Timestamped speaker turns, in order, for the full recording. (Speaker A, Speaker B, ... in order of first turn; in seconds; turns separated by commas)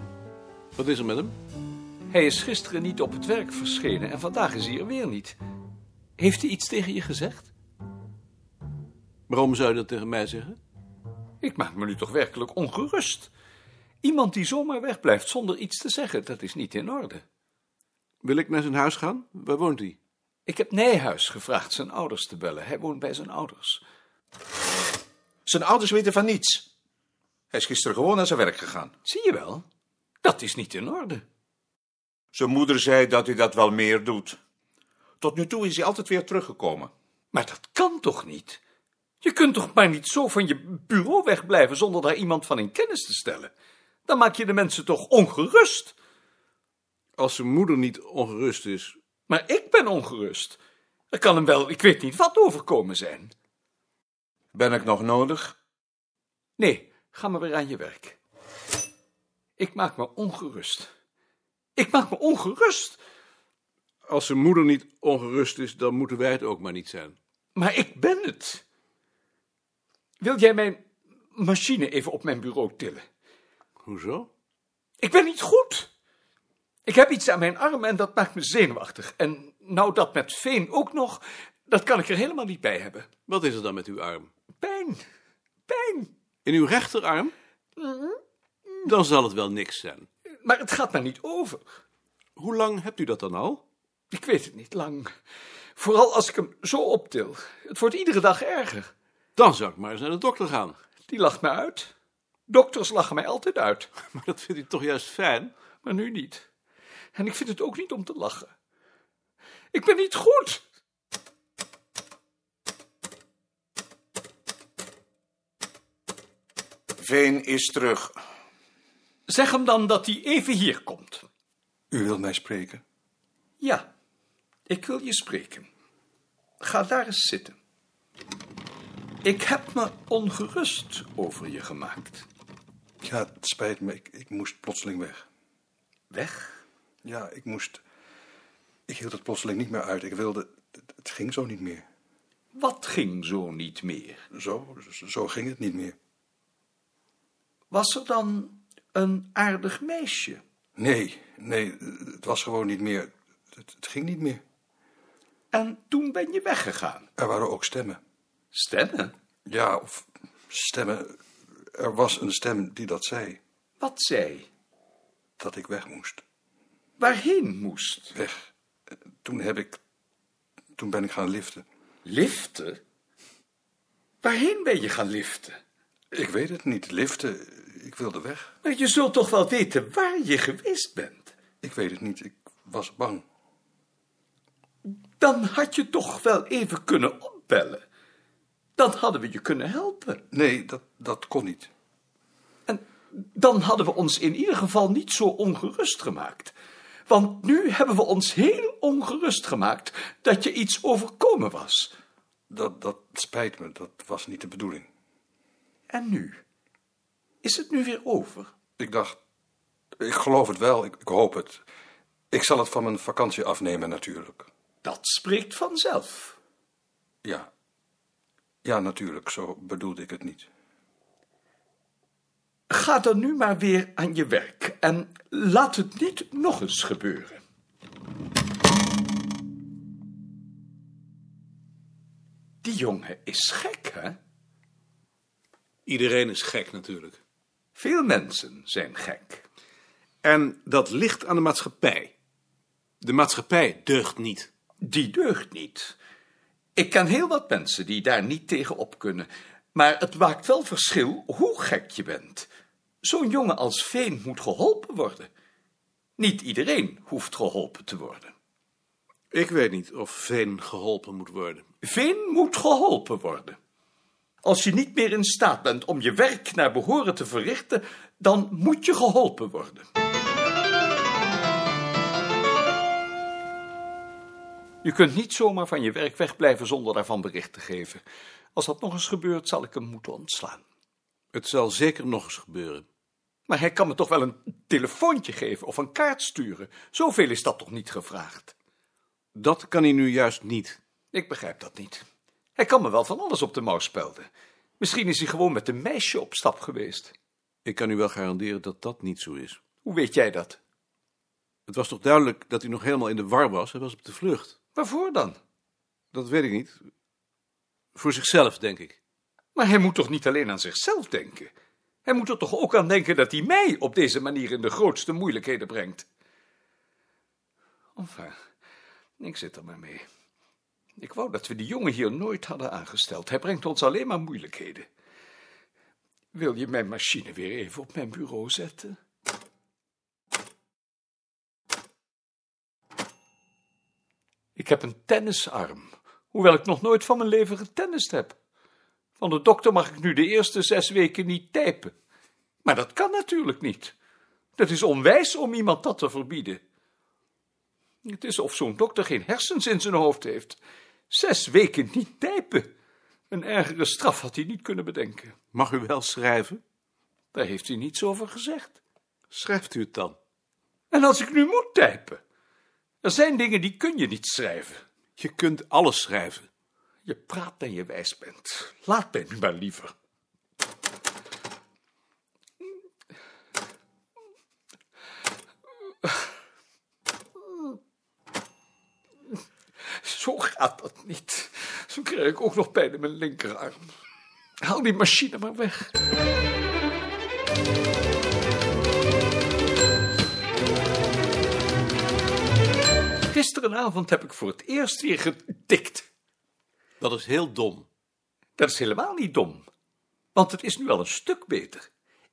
Speaker A: 0.8-1.4, Speaker B: 2.1-5.4, Speaker B: 6.2-7.5, Speaker A: 9.3-10.6, Speaker B: 11.4-13.3, Speaker B: 14.0-17.2, Speaker A: 18.2-20.0, Speaker B: 20.5-23.8, Speaker C: 25.4-26.7, Speaker C: 27.5-28.9, Speaker B: 29.0-29.6, Speaker B: 30.2-31.2, Speaker C: 32.3-34.4, Speaker C: 35.2-36.9, Speaker B: 37.3-38.6, Speaker B: 39.2-43.5, Speaker B: 44.0-46.0, Speaker A: 47.2-49.0, Speaker B: 49.3-50.6, Speaker B: 51.1-53.3, Speaker C: 54.5-55.5, Speaker B: 56.6-58.2, Speaker B: 59.6-60.9, Speaker B: 61.8-63.0, Speaker A: 64.1-67.2, Speaker B: 67.5-68.6, Speaker B: 70.2-70.8, Speaker B: 71.3-73.0, Speaker A: 73.8-74.3, Speaker B: 75.0-75.9, Speaker B: 76.8-83.1, Speaker A: 83.3-84.3, Speaker B: 84.6-85.0, Speaker B: 85.7-86.1, Speaker A: 86.4-87.3, Speaker B: 87.8-88.2, Speaker A: 88.8-90.1, Speaker B: 90.4-91.6, Speaker A: 92.4-93.6, Speaker B: 94.1-95.1, Speaker B: 95.8-98.9, Speaker A: 99.4-100.8, Speaker B: 101.1-101.9, Speaker B: 102.5-103.9, Speaker A: 104.0-105.5, Speaker B: 105.8-106.5, Speaker B: 107.1-108.5, Speaker B: 109.7-110.6, Speaker C: 117.0-118.2, Speaker B: 119.3-121.2, Speaker D: 121.9-122.8, Speaker B: 123.6-123.9, Speaker B: 124.7-125.7, Speaker B: 126.6-127.6, Speaker B: 129.2-132.3, Speaker D: 133.0-135.2, Speaker B: 136.1-136.6, Speaker D: 137.0-137.8, Speaker D: 138.9-141.8, Speaker B: 142.5-144.2, Speaker D: 144.3-145.9, Speaker B: 147.7-150.4, Speaker D: 150.8-154.4, Speaker B: 155.5-157.1, Speaker D: 157.2-158.0, Speaker B: 158.5-159.1, Speaker D: 159.5-161.2, Speaker D: 161.7-163.4, Speaker B: 163.8-164.5, Speaker D: 165.4-166.2, Speaker B: 167.0-168.1, Speaker D: 168.1-168.5, Speaker D: 169.2-169.8, Speaker D: 170.8-171.6, Speaker B: 172.0-172.8, Speaker B: 174.2-175.6, Speaker D: 176.1-178.5, Speaker B: 178.6-181.3, Speaker D: 181.6-183.2, Speaker B: 185.2-187.8, Speaker B: 188.8-190.2, Speaker D: 190.3-191.7, Speaker B: 192.7-196.5, Speaker B: 197.1-201.9, Speaker D: 202.5-204.9, Speaker B: 205.9-206.4, Speaker B: 207.4-208.5, Speaker D: 208.8-209.2, Speaker D: 210.0-211.6, Speaker D: 212.3-214.5, Speaker B: 214.8-216.4, Speaker D: 217.2-217.5, Speaker D: 218.6-220.5, Speaker B: 222.7-227.4, Speaker B: 232.6-234.2, Speaker A: 235.8-237.2, Speaker B: 237.7-239.4, Speaker A: 240.2-242.1, Speaker A: 243.0-244.5, Speaker B: 244.8-245.9, Speaker B: 246.8-252.5, Speaker B: 253.0-255.3, Speaker B: 256.2-258.3, Speaker A: 259.3-261.6, Speaker B: 261.8-263.6, Speaker B: 264.4-269.9, Speaker B: 274.8-278.0, Speaker B: 278.5-280.6, Speaker A: 281.3-282.9, Speaker B: 283.5-288.5, Speaker A: 289.3-290.8, Speaker B: 291.1-292.0, Speaker B: 292.6-294.3, Speaker B: 294.8-297.1, Speaker A: 297.6-299.6, Speaker B: 299.8-300.6, Speaker A: 301.7-304.6, Speaker B: 304.8-305.4, Speaker A: 306.1-306.8, Speaker A: 307.9-309.0, Speaker B: 309.6-311.5, Speaker B: 312.1-316.1, Speaker B: 317.9-318.4, Speaker B: 319.2-320.0, Speaker B: 321.0-324.9, Speaker B: 326.3-329.0, Speaker B: 334.6-338.4, Speaker B: 339.2-341.9, Speaker B: 342.6-343.9, Speaker B: 344.6-346.6, Speaker B: 348.0-350.6, Speaker B: 351.1-352.7, Speaker B: 353.3-355.4, Speaker A: 355.5-356.6, Speaker B: 357.3-358.8, Speaker A: 359.3-360.1, Speaker B: 360.9-362.2, Speaker B: 363.0-364.8, Speaker A: 365.2-366.5, Speaker B: 367.1-369.9, Speaker B: 379.9-383.9, Speaker B: 384.6-385.9, Speaker B: 393.3-396.1, Speaker A: 397.0-397.9, Speaker B: 398.6-399.6, Speaker B: 400.3-401.9